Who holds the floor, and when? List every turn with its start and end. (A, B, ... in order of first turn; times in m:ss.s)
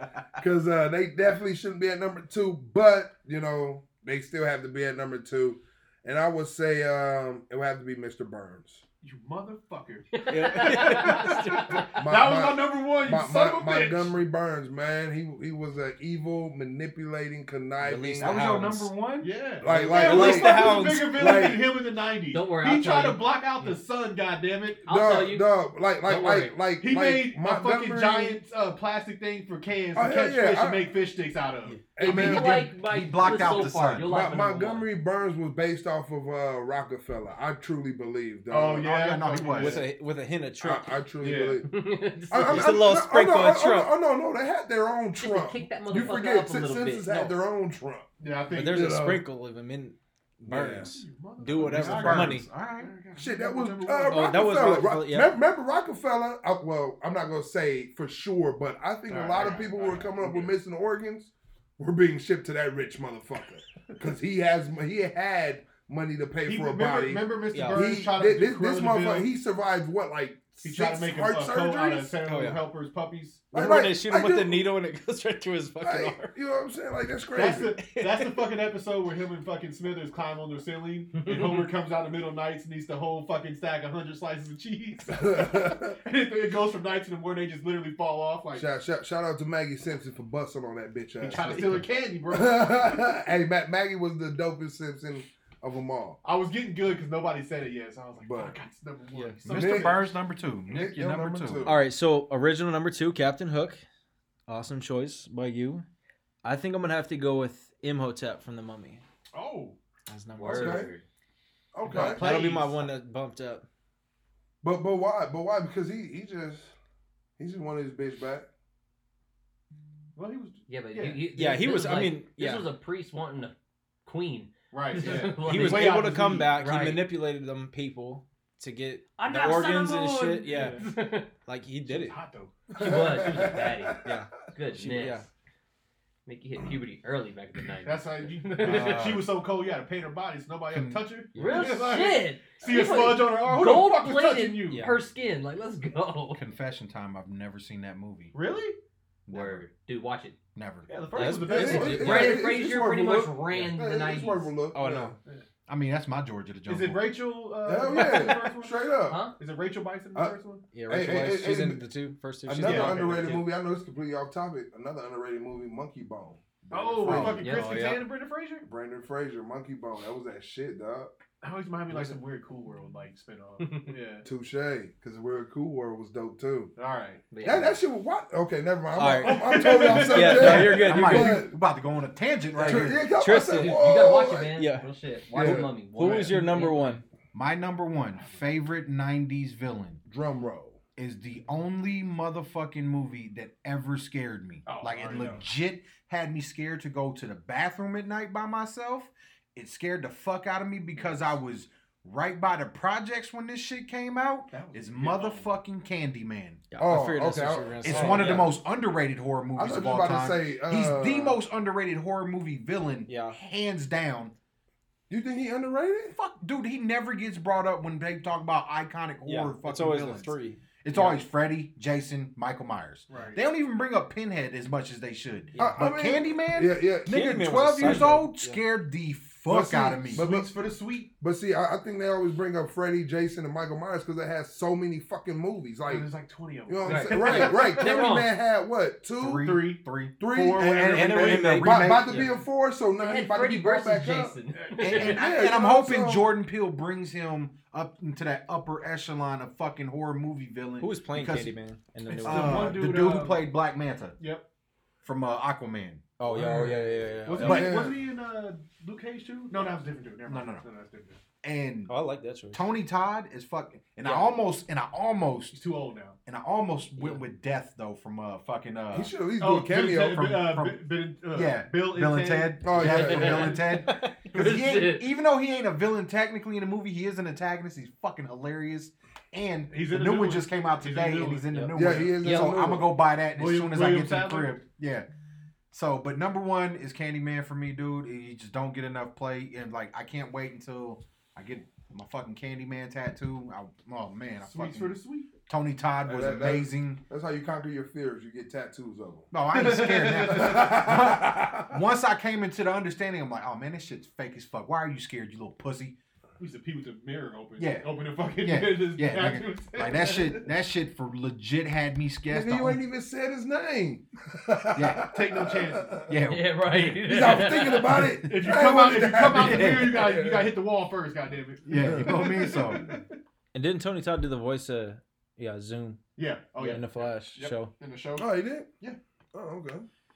0:00.4-0:08.8 A
0:09.0-0:14.2 B
0:10.2-0:12.0 C
0:10.3-0:11.8 D
0:12.0-0:18.4 A
0:17.8-0:18.9 D
0:18.2-0:19.3 E
0:19.2-0:24.9 B
0:19.6-0:21.7 A
0:19.7-0:21.5 D
0:22.3-0:23.2 C
0:24.9-0:25.5 C
0:24.9-0:28.4 A
0:26.1-0:31.9 B
0:30.0-0:30.9 A
0:32.0-0:32.7 A
0:32.0-0:34.1 E
0:32.0-0:34.9 C
0:34.0-0:38.9 A
0:38.5-0:39.9 B
0:38.8-0:39.9 E
0:39.5-0:40.9 D
0:40.6-0:41.7 A
0:41.2-0:41.6 B
0:41.6-0:42.8 C
0:42.3-0:48.1 A
0:42.4-0:43.9 D
0:45.2-0:47.4 C
0:48.2-0:48.9 B
0:48.5-0:52.5 D
0:48.7-0:49.2 A
0:50.5-0:50.9 A
0:50.6-0:54.4 B
0:51.6-0:52.9 E
0:52.0-0:52.3 A
0:53.2-1:12.2 A
0:54.1-0:55.3 D
0:59.1-1:00.6 B
1:06.4-1:09.3 B
1:07.5-1:07.9 D
1:10.6-1:13.5 B
1:12.2-1:12.6 D
1:13.5-1:14.7 A
1:13.5-1:16.3 D
1:15.8-1:17.8 A
1:17.4-1:28.7 B
1:17.8-1:18.5 D
1:25.2-1:26.0 A
1:28.6-1:31.7 A
1:31.2-1:33.0 B
1:31.4-1:31.8 D
1:32.3-1:36.2 A
1:36.2-1:40.0 B
1:38.2-1:38.6 A
1:39.5-1:41.7 E
1:39.5-1:40.0 A
1:40.7-1:41.8 A
1:41.6-1:43.8 D
1:44.5-1:45.8 D
1:46.4-1:49.0 D
1:49.3-1:49.8 B
1:50.1-1:50.9 D
1:50.4-1:51.0 C
1:50.5-1:50.9 A
1:51.7-1:52.3 A
1:51.8-1:52.9 B
1:51.9-1:53.6 D
1:54.6-1:56.7 A
1:57.4-1:58.5 A
2:00.2-2:01.4 B
2:00.7-2:03.5 C
2:01.4-2:02.7 D
2:04.0-2:07.0 C
2:04.7-2:06.5 B
2:05.0-2:10.8 D
2:09.2-2:11.3 C
2:10.5-2:11.0 B
2:11.5-2:12.2 D
2:11.9-2:13.5 B
2:12.7-2:14.1 A
2:12.8-2:15.3 C
2:14.0-2:15.3 D
2:16.3-2:19.1 C
2:17.8-2:24.9 B
2:18.6-2:19.3 E
2:20.7-2:21.1 E
2:21.4-2:21.8 D
2:21.4-2:26.4 C
2:24.7-2:25.0 D
2:26.3-2:28.4 E
2:28.3-2:28.8 B
2:29.3-2:29.6 E
2:29.3-2:30.4 C
2:30.6-2:30.9 E
2:30.9-2:32.3 B
2:31.1-2:32.4 D
2:31.5-2:35.2 A
2:31.8-2:34.5 C
2:34.7-2:35.2 D
2:35.7-2:37.1 E
2:36.7-2:40.6 B
2:37.6-2:39.2 A
2:39.1-2:39.4 C
2:40.7-2:43.4 D
2:40.9-2:41.8 A
2:42.5-2:47.4 A
2:42.6-2:43.4 B
2:46.7-2:47.4 E
2:46.7-2:48.7 B
2:47.0-2:48.0 D
2:47.4-2:47.8 C
2:48.6-2:51.1 A
2:51.4-2:54.3 B
2:51.9-2:52.2 D
2:53.6-2:53.9 C
2:54.2-2:56.7 A
2:56.8-2:57.2 B
2:57.3-2:57.8 C
2:57.4-3:01.6 A
2:59.0-3:01.4 D
2:59.2-3:00.6 B
3:00.3-3:03.1 E
3:02.5-3:03.8 D
3:02.6-3:04.6 A
3:03.3-3:07.0 C
3:04.6-3:04.9 D
3:05.3-3:05.7 A
3:05.4-3:07.0 D
3:07.3-3:10.0 E
3:10.1-3:10.8 A
3:11.0-3:26.6 E
3:14.7-3:15.4 B
3:21.0-3:21.4 B
3:24.5-3:25.6 B
3:26.7-3:28.6 D
3:26.8-3:28.4 A
3:27.8-3:34.3 E
3:27.9-3:28.3 B
3:29.6-3:31.4 A
3:33.1-3:33.4 D
3:35.1-3:36.2 A
3:36.1-3:50.3 E
3:39.3-3:41.2 D
3:43.1-3:43.4 B
3:45.5-3:45.9 D
3:45.6-3:47.3 A
3:47.1-3:48.6 D
3:49.5-3:50.5 A
3:50.1-3:51.1 B
3:51.2-3:56.1 A
3:55.9-3:58.1 B
3:56.7-3:59.6 A
3:56.9-3:58.3 C
3:59.2-4:02.2 E
3:59.4-4:01.4 B
4:00.2-4:04.4 A
4:00.9-4:02.3 D
4:03.0-4:05.2 C
4:04.8-4:11.5 E
4:04.9-4:06.3 A
4:10.8-4:12.8 D
4:12.1-4:13.5 B
4:12.2-4:14.2 E
4:14.2-4:14.5 B
4:15.0-4:16.0 E
4:16.2-4:17.8 D
4:16.3-4:21.2 B
4:17.4-4:18.0 A
4:20.3-4:20.7 E
4:21.4-4:22.0 E
4:21.9-4:22.7 D
4:22.5-4:25.6 E
4:24.0-4:24.4 B
4:25.5-4:26.2 B
4:26.3-4:29.1 E
4:27.0-4:27.2 D
4:28.9-4:30.4 A
4:29.4-4:33.5 B
4:30.2-4:45.1 E
4:32.6-4:33.6 A
4:32.9-4:35.0 C
4:39.7-4:41.7 B
4:41.8-4:42.9 A
4:42.2-4:42.6 C
4:43.3-4:44.6 B
4:45.7-4:57.0 E
4:54.4-4:55.3 B
4:56.0-4:59.3 A
4:59.3-5:06.0 E
4:59.5-5:00.8 B
5:00.3-5:01.8 A
5:06.4-5:10.5 B
5:07.6-5:12.8 E
5:12.3-5:16.1 A
5:14.8-5:15.1 E
5:15.1-5:16.1 B
5:16.1-5:18.7 E
5:16.3-5:17.9 C
5:17.1-5:20.5 A
5:18.2-5:23.1 B
5:19.2-5:20.1 E
5:21.6-5:22.9 E
5:21.8-5:22.2 A
5:23.5-5:26.0 D
5:26.2-5:28.3 B
5:26.6-5:27.7 D
5:28.2-5:28.8 A
5:29.3-5:29.9 A